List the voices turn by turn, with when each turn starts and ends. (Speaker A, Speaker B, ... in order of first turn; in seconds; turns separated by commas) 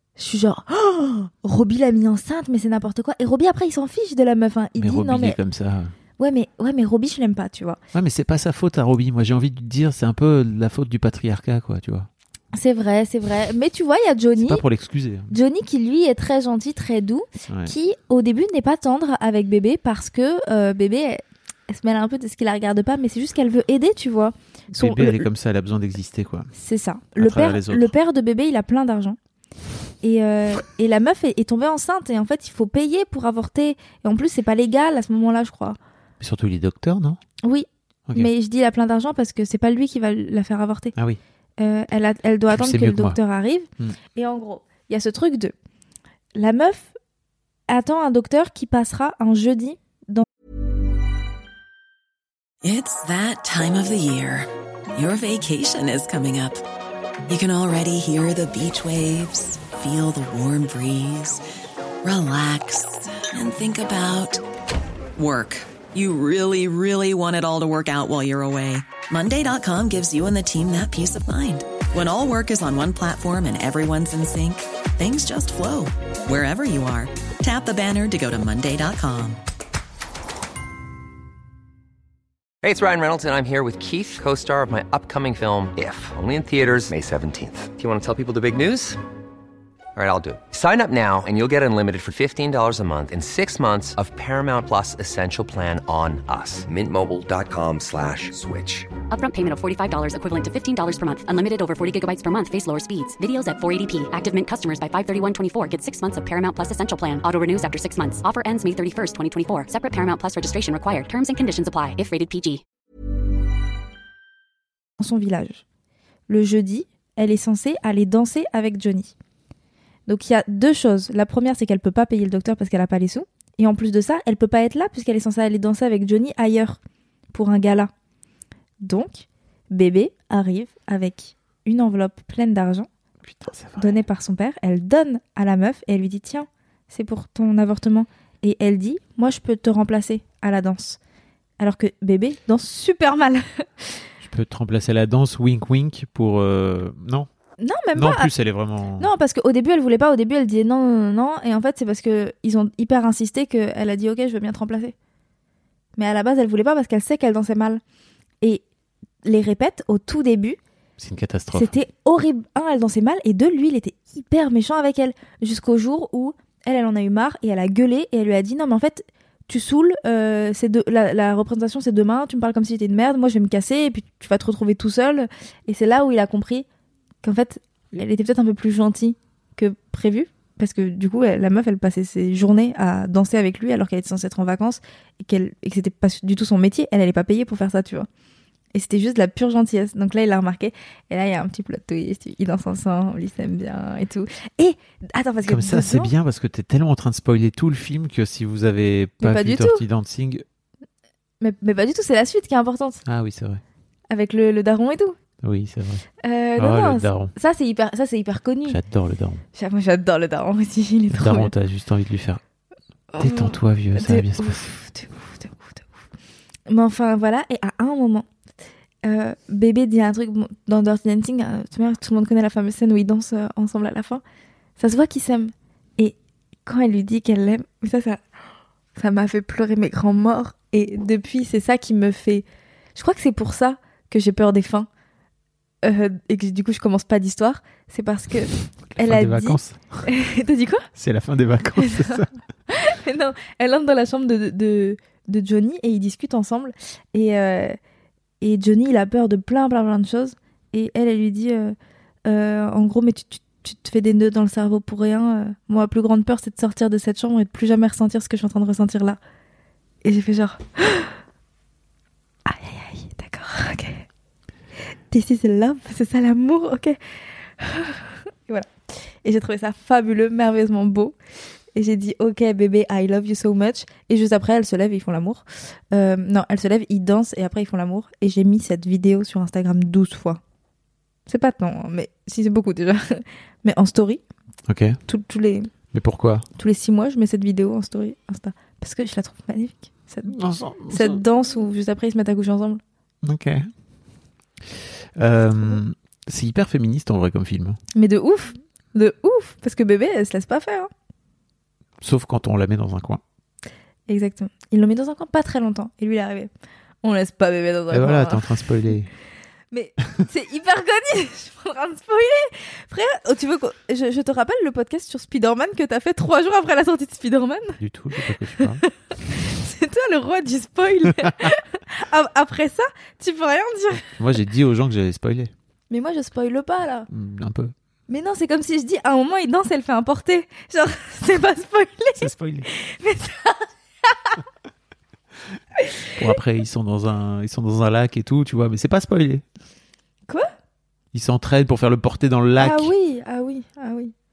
Speaker A: 0.1-5.4, Speaker B: 4.8-5.9, Speaker A: 6.2-7.8, Speaker B: 7.9-12.1, Speaker A: 12.5-14.6, Speaker B: 14.4-15.3, Speaker A: 15.3-25.3, Speaker B: 17.5-17.7, Speaker B: 24.7-26.5, Speaker A: 26.5-29.2, Speaker B: 27.2-27.9, Speaker A: 30.0-35.8, Speaker B: 36.2-37.2, Speaker A: 37.4-40.9, Speaker A: 41.6-45.5, Speaker B: 42.5-43.2, Speaker A: 46.3-46.9, Speaker A: 47.7-50.2, Speaker C: 52.7-54.4, Speaker C: 55.0-56.6, Speaker C: 57.3-61.4, Speaker C: 62.0-64.4, Speaker C: 65.2-79.4, Speaker D: 82.6-89.0, Speaker D: 90.0-98.9, Speaker E: 99.1-112.6, Speaker A: 115.0-115.6, Speaker A: 116.3-119.1, Speaker A: 120.1-126.8, Speaker A: 127.3-127.9, Speaker A: 128.8-132.9, Speaker B: 133.2-134.0, Speaker A: 133.8-141.0, Speaker A: 141.6-143.8, Speaker B: 144.2-147.3, Speaker A: 147.6-148.3, Speaker B: 147.9-149.1, Speaker A: 149.0-154.9, Speaker A: 155.9-157.8, Speaker A: 159.2-160.6, Speaker B: 161.0-161.7, Speaker A: 161.5-176.7, Speaker A: 177.2-188.1, Speaker A: 188.7-196.1, Speaker B: 195.4-200.4, Speaker A: 199.2-199.8, Speaker A: 201.4-203.0, Speaker B: 203.1-203.6, Speaker A: 204.1-205.2, Speaker B: 205.4-206.0, Speaker A: 206.2-208.8, Speaker B: 206.6-207.3, Speaker B: 208.7-209.4, Speaker A: 209.5-211.5, Speaker B: 211.1-212.4, Speaker A: 213.1-215.8, Speaker B: 213.2-214.7, Speaker A: 216.7-218.3, Speaker A: 219.0-224.2, Speaker A: 224.8-228.2, Speaker A: 228.9-234.9, Speaker A: 235.8-240.9, Speaker B: 238.9-240.0, Speaker B: 240.9-242.3, Speaker A: 241.8-247.8, Speaker A: 248.4-259.2, Speaker A: 260.0-261.1, Speaker A: 262.4-264.1, Speaker A: 265.1-267.0, Speaker A: 267.6-268.7, Speaker A: 269.2-271.1, Speaker A: 271.7-280.4, Speaker A: 281.2-284.2, Speaker B: 284.7-285.0, Speaker A: 285.1-285.7, Speaker B: 285.9-286.4, Speaker A: 286.6-290.4, Speaker B: 290.2-291.2, Speaker A: 290.9-292.8, Speaker B: 293.2-293.7, Speaker B: 295.2-297.8, Speaker A: 297.9-300.9, Speaker B: 302.0-303.2, Speaker A: 304.1-306.5, Speaker A: 307.0-308.5, Speaker B: 307.9-309.1, Speaker A: 309.7-317.8, Speaker B: 317.8-318.8, Speaker A: 318.5-324.1, Speaker B: 324.2-325.5, Speaker A: 325.9-327.1, Speaker B: 327.1-327.7, Speaker A: 328.1-333.7, Speaker B: 332.1-332.7, Speaker B: 336.1-339.4, Speaker B: 341.1-342.9, Speaker A: 342.6-344.1